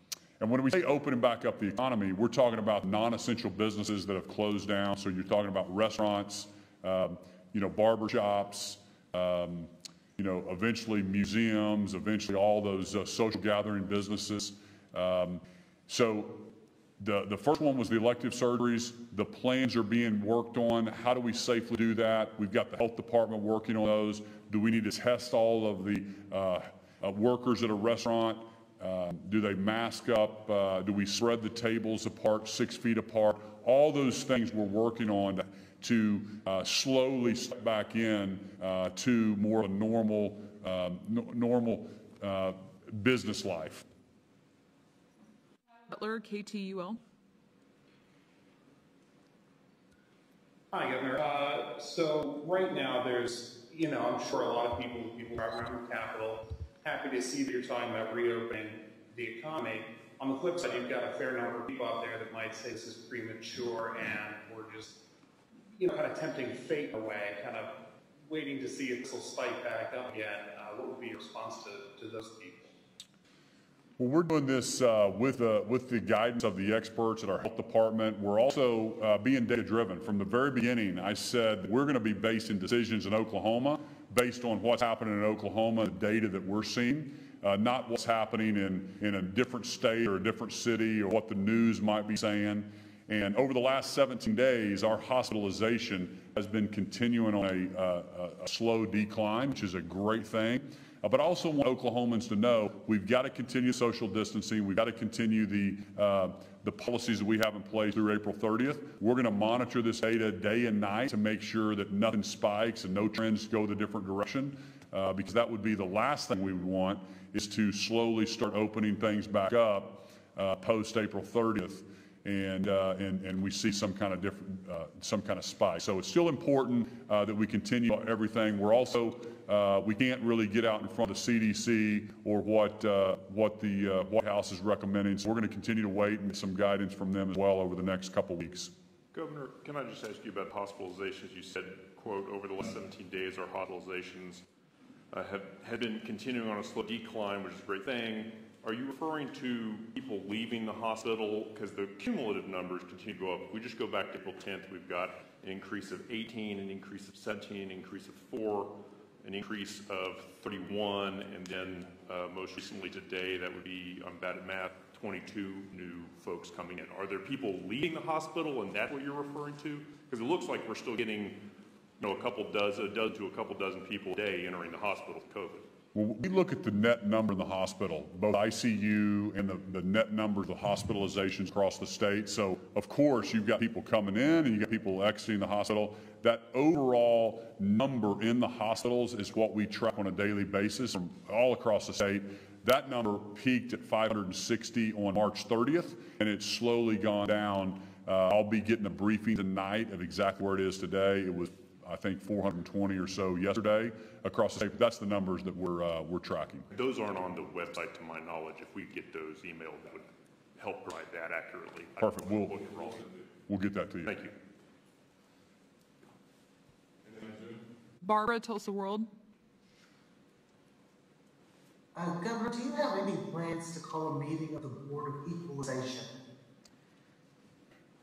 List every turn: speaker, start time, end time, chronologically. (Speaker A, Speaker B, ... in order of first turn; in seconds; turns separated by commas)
Speaker A: 0.4-43.8, Speaker B: 45.9-47.0, Speaker C: 50.7-65.0, Speaker C: 65.7-72.7, Speaker A: 74.0-138.7, Speaker D: 139.1-144.4, Speaker D: 145.1-171.4, Speaker D: 172.0-175.7, Speaker A: 175.9-206.7, Speaker D: 206.7-213.2, Speaker A: 212.0-212.7, Speaker A: 213.5-214.2, Speaker D: 214.1-214.3, Speaker B: 218.0-219.1, Speaker E: 221.9-226.1